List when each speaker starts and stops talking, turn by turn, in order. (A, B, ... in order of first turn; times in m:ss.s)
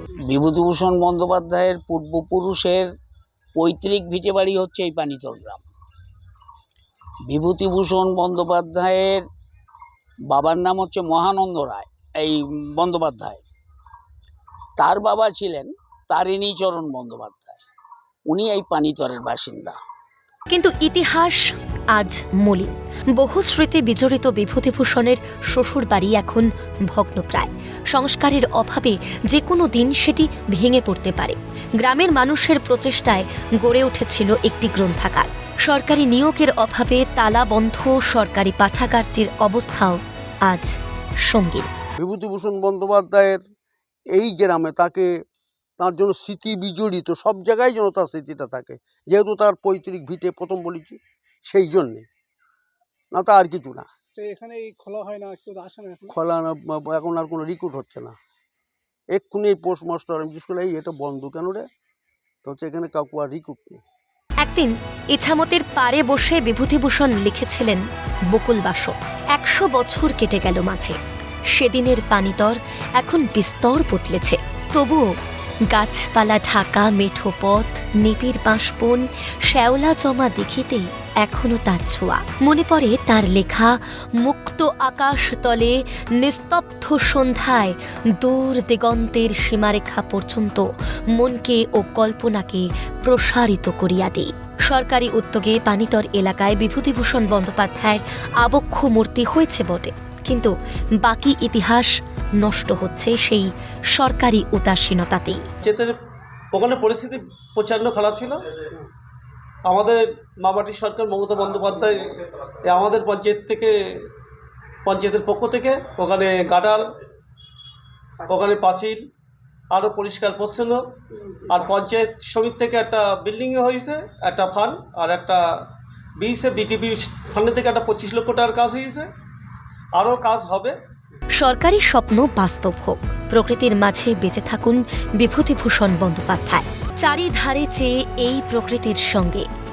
0:00.3-0:02.9 A
0:03.6-0:05.6 A
0:07.3-0:09.2 A
0:10.3-0:13.4 A
0:14.8-0:17.6 A
0:18.3-0:19.8 A
0:20.5-0:41.7 B
0:42.0-0:43.4 C
0:44.1-0:45.1 C
0:45.8-0:52.1 C
0:53.1-0:53.9 C
0:54.1-0:56.1 D
0:56.1-0:58.2 C
0:59.1-1:01.7 C
1:02.4-1:03.8 C
1:04.4-1:11.0 B
1:11.5-1:15.1 B
1:15.7-1:45.5 B
1:45.6-1:46.0 E
1:46.5-1:48.5 E
1:49.7-1:54.1 E
1:54.8-1:56.9 E
1:58.3-1:59.0 E
1:59.7-2:00.9 E
2:01.5-2:05.7 E
2:06.2-2:09.1 E
2:10.0-2:10.8 E
2:11.4-2:19.5 B